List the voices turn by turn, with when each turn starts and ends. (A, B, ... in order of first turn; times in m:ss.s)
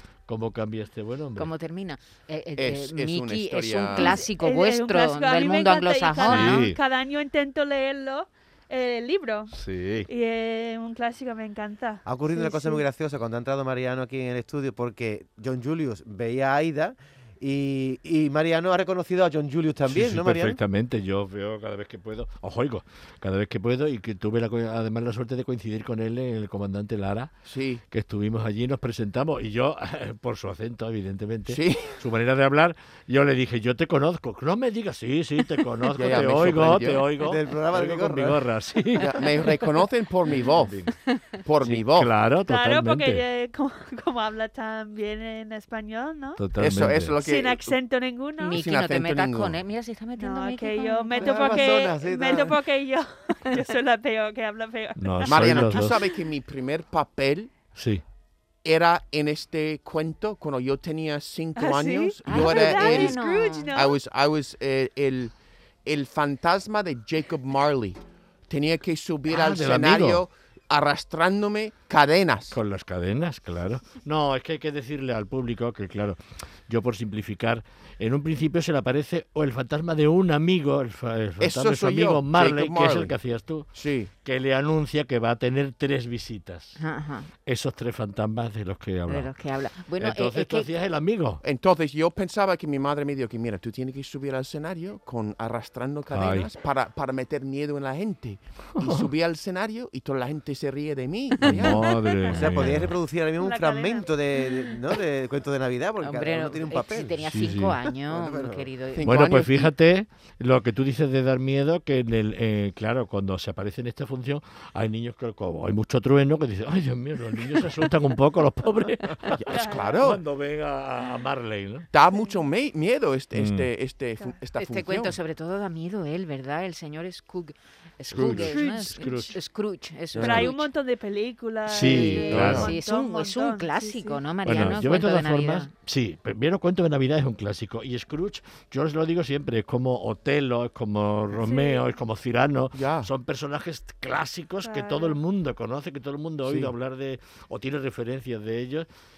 0:00.3-0:01.5 A
0:01.4-0:06.4 B
0:02.6-0:04.2 C
0:03.9-0:09.6 D
0:06.2-0:06.8 A
0:09.5-0:10.1 A
0:10.1-0:12.8 D
0:12.1-0:20.6 E
0:19.9-0:27.3 A
0:27.5-0:27.8 C
0:27.9-0:39.7 A
0:31.5-0:32.0 C
0:36.0-0:37.1 C
0:37.2-0:38.4 E
0:39.0-0:40.8 C
0:40.3-0:40.9 A
0:40.9-0:41.4 B
0:41.4-0:42.1 C
0:41.6-0:43.2 A
0:42.4-0:46.4 D
0:46.4-0:47.2 A
0:46.6-0:47.8 C
0:47.2-0:48.6 D
0:48.4-0:51.4 B
0:48.5-0:49.6 C
0:50.2-0:56.1 D
0:51.2-0:52.6 E
0:55.0-0:55.9 A
0:55.2-0:57.6 C
0:57.8-0:58.0 A
0:58.6-1:05.3 C
1:01.6-1:04.0 D
1:02.2-1:03.7 B
1:05.8-1:12.6 C
1:09.3-1:10.3 A
1:12.5-1:23.7 A
1:21.4-1:23.2 C
1:23.7-1:24.1 C
1:24.2-1:26.8 A
1:26.8-1:27.3 B
1:27.4-1:29.3 A
1:29.1-1:30.7 B
1:30.0-1:31.4 A
1:31.4-1:42.2 C
1:36.1-1:36.5 A
1:38.8-1:39.1 A
1:41.4-1:43.0 A
1:42.3-1:48.7 E
1:43.4-1:44.9 D
1:46.0-1:49.5 B
1:47.2-1:47.8 A
1:49.0-1:49.7 C
1:49.0-2:01.9 A
1:59.3-2:00.2 C
1:59.5-2:00.0 D
2:01.9-2:05.2 C
2:02.1-2:02.5 D
2:03.3-2:03.7 A
2:04.5-2:10.7 B
2:08.1-2:09.4 A
2:08.1-2:08.5 C
2:08.3-2:09.3 D
2:10.2-2:10.5 C
2:10.2-2:14.8 D
2:11.7-2:12.8 A
2:11.9-2:15.7 B
2:12.3-2:12.7 C
2:14.4-2:28.9 A
2:21.3-2:21.9 D
2:22.7-2:23.1 C
2:24.6-2:25.2 D
2:26.4-2:26.7 C